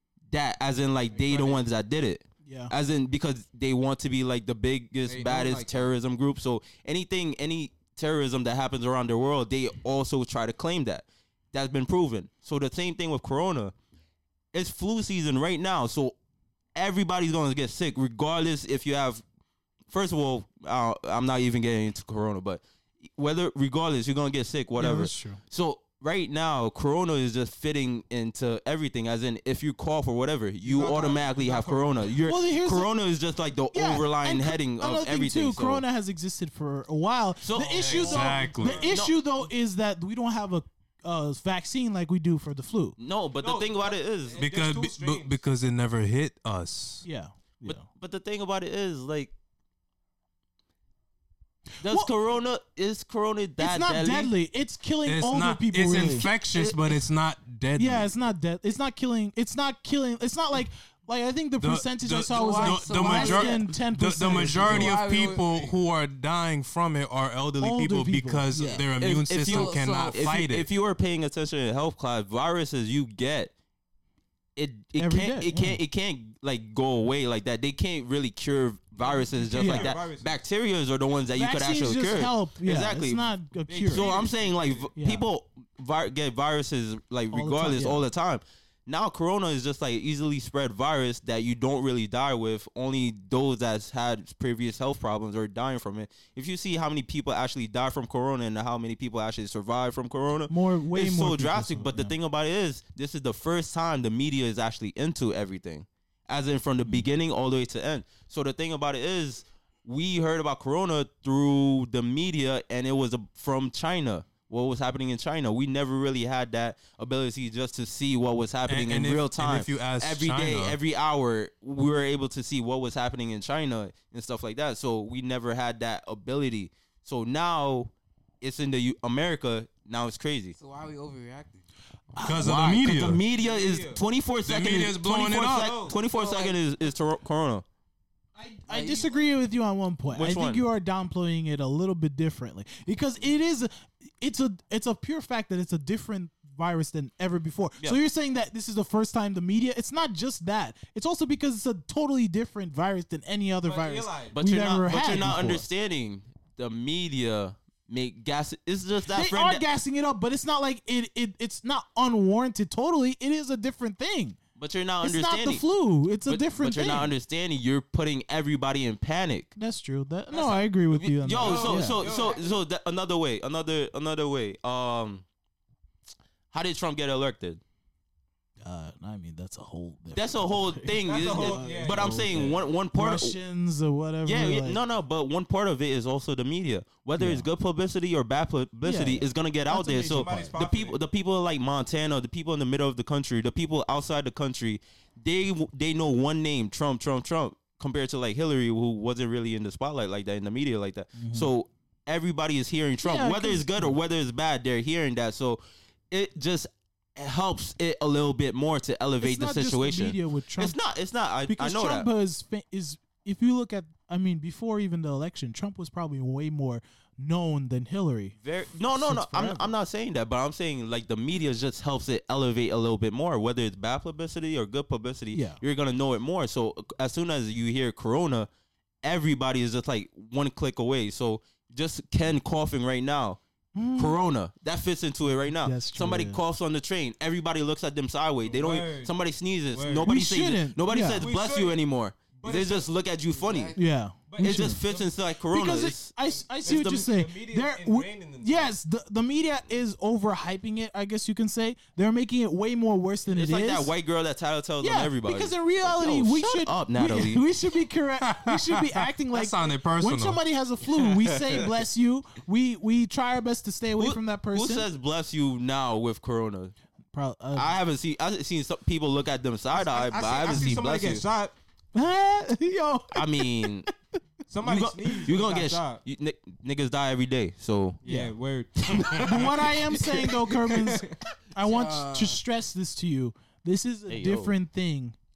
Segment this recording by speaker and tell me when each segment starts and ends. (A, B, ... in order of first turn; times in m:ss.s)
0:00.3-0:13.7 A
0:01.0-0:01.6 B
0:02.4-0:02.7 C
0:05.0-0:05.9 B
0:14.5-0:16.1 A
0:16.7-0:19.2 A
0:19.9-0:22.6 A
0:23.1-0:35.8 A
0:24.8-0:25.4 C
0:30.6-0:32.0 B
0:32.2-0:32.9 C
0:33.7-0:43.0 C
0:37.4-0:39.2 A
0:37.8-0:39.0 B
0:37.9-0:38.8 D
0:43.0-0:44.4 A
0:43.4-0:45.4 B
0:44.4-0:47.0 D
0:47.0-0:47.8 C
0:47.6-0:49.3 A
0:51.8-0:52.1 C
0:51.8-0:54.3 A
0:53.6-0:56.3 C
0:55.0-0:58.1 D
0:57.8-1:04.9 C
1:01.6-1:10.7 D
1:02.3-1:03.7 E
1:04.5-1:05.8 B
1:04.5-1:05.5 E
1:07.6-1:08.8 C
1:09.0-1:13.5 A
1:09.4-1:10.4 E
1:14.6-1:23.2 A
1:15.0-1:15.8 C
1:19.0-1:20.3 B
1:19.5-1:19.9 C
1:21.3-1:24.1 C
1:23.7-1:24.9 B
1:23.9-2:10.6 A
1:25.0-1:25.3 C
1:27.3-1:28.0 C
1:40.5-1:42.1 C
1:58.7-2:00.8 D
2:10.6-2:11.6 E
2:12.2-2:12.5 C
2:12.2-2:13.2 D
2:12.3-2:17.6 A
2:13.3-2:14.0 B
2:14.4-2:15.7 D
2:15.5-2:15.9 B
2:16.0-2:16.6 E
2:18.4-2:35.6 C
2:18.7-2:19.1 E
2:20.1-2:20.6 A
2:33.6-2:34.4 B
2:34.3-2:39.6 A
2:39.1-2:44.4 C
2:44.6-2:45.6 A
2:45.0-2:47.1 C
2:46.2-2:49.5 A
2:49.6-2:52.0 C
2:50.3-2:50.6 B
2:50.9-2:55.2 A
2:51.3-2:52.4 B
2:56.5-2:57.6 A
2:58.6-3:04.8 C
3:00.1-3:03.4 A
3:01.0-3:02.5 B
3:04.2-3:32.1 A
3:07.2-3:07.5 C
3:08.8-3:10.6 C
3:10.0-3:11.0 B
3:21.2-3:21.5 C
3:23.0-3:23.9 C
3:29.2-3:30.8 C
3:31.5-3:38.4 C
3:38.4-3:48.5 A
3:38.9-3:39.7 C
3:45.3-3:45.6 C
3:49.0-3:53.4 A
3:53.7-3:54.2 C
3:54.0-4:03.7 A
3:55.6-3:56.4 C
3:58.4-3:59.1 B
3:59.7-4:00.1 B
4:00.0-4:01.3 C
4:01.1-4:01.8 B
4:02.4-4:02.9 B
4:03.3-4:03.8 E
4:03.8-4:04.8 C
4:04.3-4:05.1 B
4:04.4-4:06.1 A
4:05.5-4:13.9 C
4:06.2-4:08.7 B
4:06.7-4:07.0 A
4:13.2-4:17.4 A
4:14.8-4:24.9 C
4:18.2-4:20.4 D
4:24.0-4:26.7 A
4:27.1-4:27.7 C
4:27.5-4:31.2 A
4:29.7-4:31.5 B
4:31.9-4:33.7 C
4:33.1-4:33.9 A
4:34.5-4:36.0 B
4:34.6-4:38.0 A
4:38.0-4:41.2 B
4:38.0-4:38.3 C
4:38.8-4:39.9 A
4:39.2-4:45.2 C
4:41.6-4:42.4 E
4:44.1-4:44.5 A